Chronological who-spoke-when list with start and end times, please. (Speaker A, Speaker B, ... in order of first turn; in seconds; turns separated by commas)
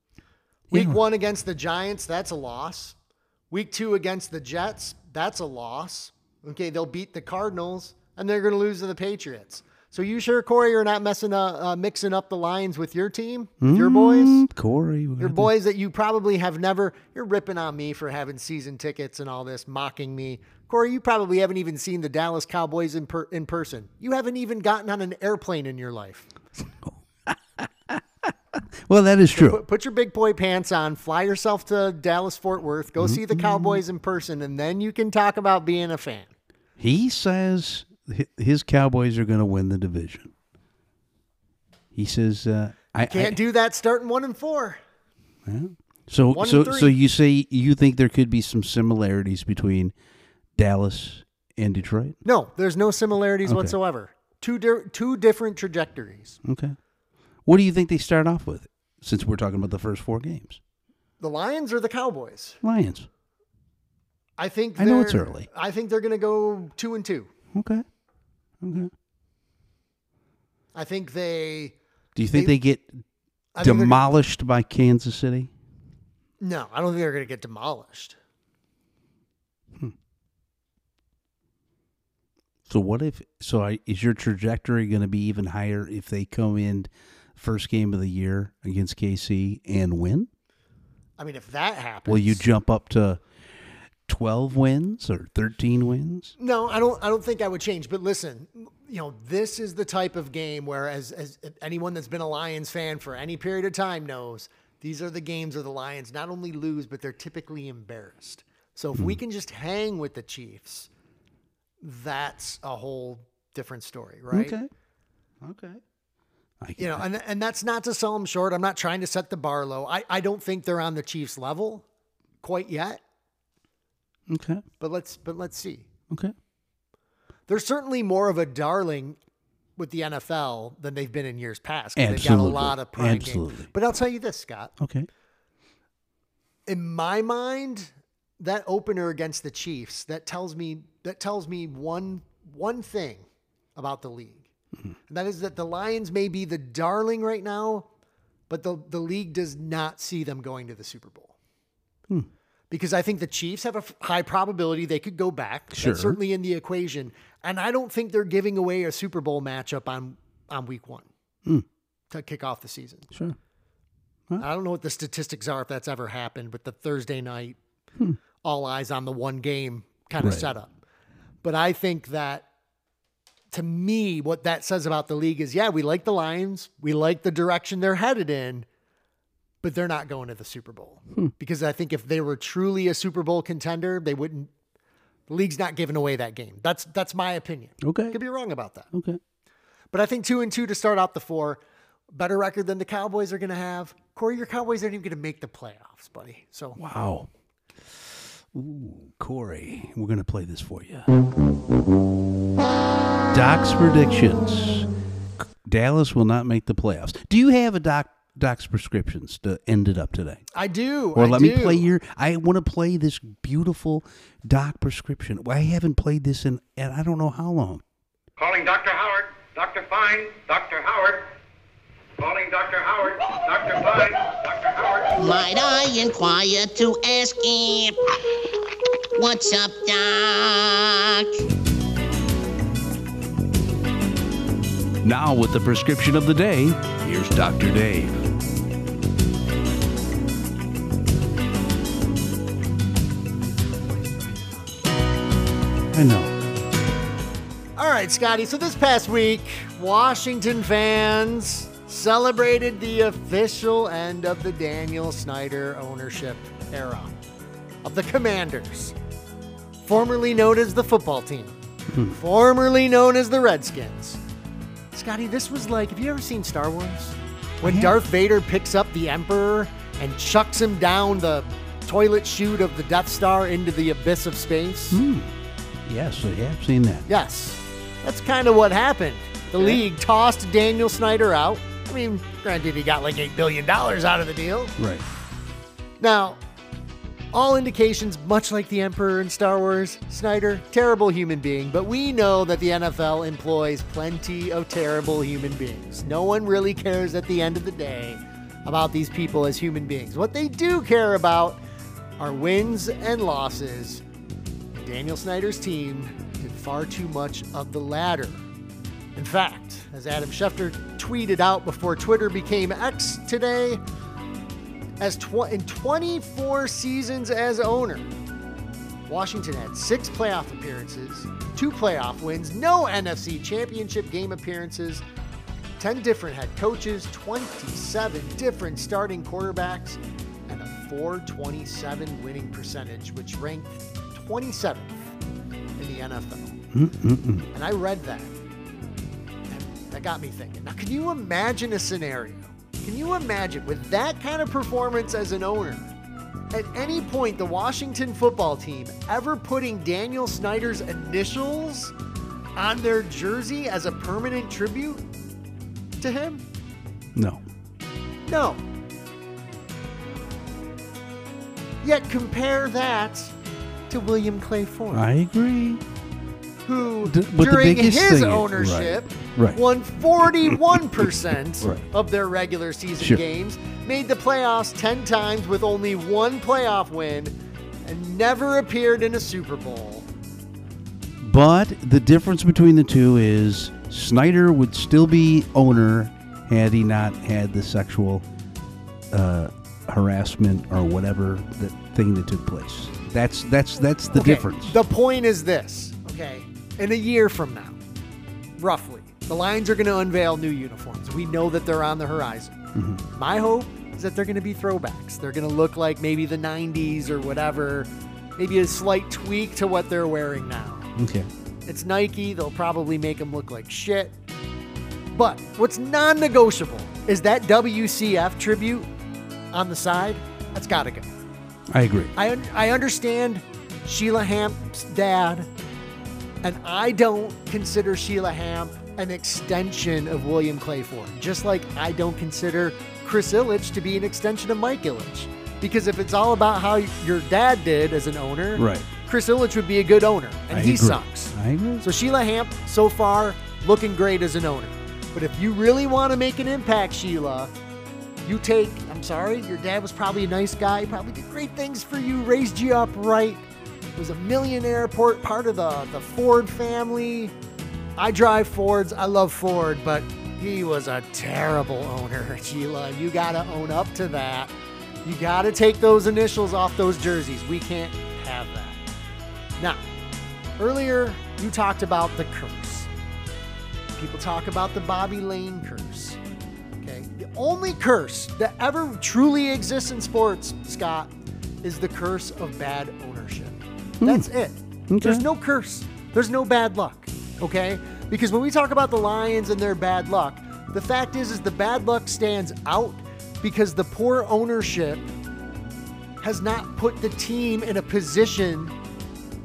Speaker A: 0.7-1.0, Speaker B: 0.7-3.0, Speaker B: 3.5-14.4, Speaker A: 13.6-15.5, Speaker B: 15.2-26.3, Speaker A: 26.8-29.6, Speaker B: 29.3-36.3, Speaker A: 33.0-33.8, Speaker A: 36.8-40.3, Speaker A: 41.9-43.4, Speaker B: 43.1-44.8, Speaker A: 45.4-49.9, Speaker B: 46.3-47.0, Speaker A: 50.5-52.2, Speaker B: 52.2-56.4, Speaker A: 53.4-53.8, Speaker A: 56.4-56.8, Speaker A: 57.5-60.6, Speaker B: 61.2-62.6, Speaker A: 62.6-63.1, Speaker B: 64.4-67.3, Speaker A: 64.8-65.5, Speaker A: 67.5-67.8, Speaker A: 68.6-68.9, Speaker B: 70.7-71.8, Speaker A: 72.2-73.0, Speaker B: 73.5-74.0, Speaker A: 73.6-75.5, Speaker B: 76.4-78.2, Speaker A: 82.7-90.3, Speaker B: 91.2-92.4, Speaker A: 92.0-93.2, Speaker A: 94.1-96.3, Speaker B: 96.4-110.9, Speaker B: 111.8-114.5, Speaker A: 114.3-114.7, Speaker A: 115.4-115.8, Speaker A: 116.6-117.0, Speaker B: 116.8-121.8, Speaker B: 122.4-123.0, Speaker A: 124.3-124.6, Speaker B: 124.8-125.9, Speaker B: 127.5-129.2, Speaker B: 129.8-134.7, Speaker A: 131.9-133.7, Speaker A: 134.8-135.1, Speaker B: 136.7-143.2, Speaker B: 143.8-144.5, Speaker B: 145.1-147.9, Speaker B: 148.5-151.3, Speaker B: 152.7-161.1, Speaker A: 155.7-156.2, Speaker B: 162.1-163.1, Speaker A: 163.1-163.3, Speaker B: 164.4-167.6, Speaker B: 168.4-170.7, Speaker A: 170.2-170.5, Speaker B: 171.4-172.4, Speaker B: 173.5-178.7, Speaker B: 179.6-184.5, Speaker B: 185.3-188.9, Speaker A: 187.8-188.2, Speaker A: 188.9-189.2, Speaker B: 189.9-196.8, Speaker A: 196.8-197.3, Speaker A: 197.8-201.1, Speaker A: 203.3-204.9, Speaker A: 205.4-210.4, Speaker B: 210.5-211.9, Speaker A: 211.1-217.8, Speaker C: 218.4-221.3, Speaker C: 222.2-225.2, Speaker D: 225.2-228.0, Speaker D: 229.1-231.3, Speaker A: 235.0-238.2, Speaker A: 245.9-246.3, Speaker B: 247.8-257.1, Speaker B: 257.8-258.9, Speaker B: 259.8-261.5, Speaker A: 261.9-262.2, Speaker B: 262.1-264.2, Speaker B: 264.9-275.0, Speaker A: 267.6-268.0, Speaker A: 274.9-275.3, Speaker A: 275.9-277.1, Speaker B: 277.1-284.7, Speaker A: 279.6-279.8, Speaker A: 284.8-285.0, Speaker B: 286.0-286.4, Speaker B: 287.3-301.6, Speaker B: 302.2-304.0, Speaker B: 304.7-308.4, Speaker B: 309.1-313.8, Speaker B: 315.0-318.1, Speaker B: 319.1-325.0, Speaker B: 325.8-335.1, Speaker B: 335.8-336.6, Speaker A: 336.7-337.5, Speaker B: 337.5-338.3, Speaker B: 339.5-345.9, Speaker B: 346.5-351.9, Speaker B: 352.6-355.0, Speaker B: 356.0-356.4, Speaker A: 357.1-357.4, Speaker B: 358.3-358.6, Speaker B: 361.8-363.3, Speaker B: 363.9-365.0, Speaker A: 364.9-365.8, Speaker B: 366.6-380.1, Speaker A: 367.0-369.6, Speaker A: 370.4-370.8, Speaker A: 371.6-371.8, Speaker A: 381.2-388.2, Speaker A: 389.1-394.8, Speaker B: 394.1-397.8, Speaker B: 398.6-402.5, Speaker A: 402.7-403.0, Speaker B: 403.1-410.9, Speaker A: 410.9-411.3, Speaker B: 411.7-414.1, Speaker B: 415.1-418.9, Speaker B: 419.5-421.1, Speaker A: 421.7-422.1, Speaker B: 422.1-425.5, Speaker B: 426.4-447.5, Speaker A: 438.6-438.9, Speaker A: 440.5-441.9, Speaker B: 448.2-453.4, Speaker B: 454.0-457.3, Speaker B: 458.0-464.5, Speaker B: 465.0-468.8, Speaker B: 469.6-469.8, Speaker B: 470.6-472.9, Speaker B: 474.0-476.2, Speaker B: 476.8-495.1, Speaker A: 484.0-484.3, Speaker A: 484.9-485.2, Speaker B: 496.2-498.7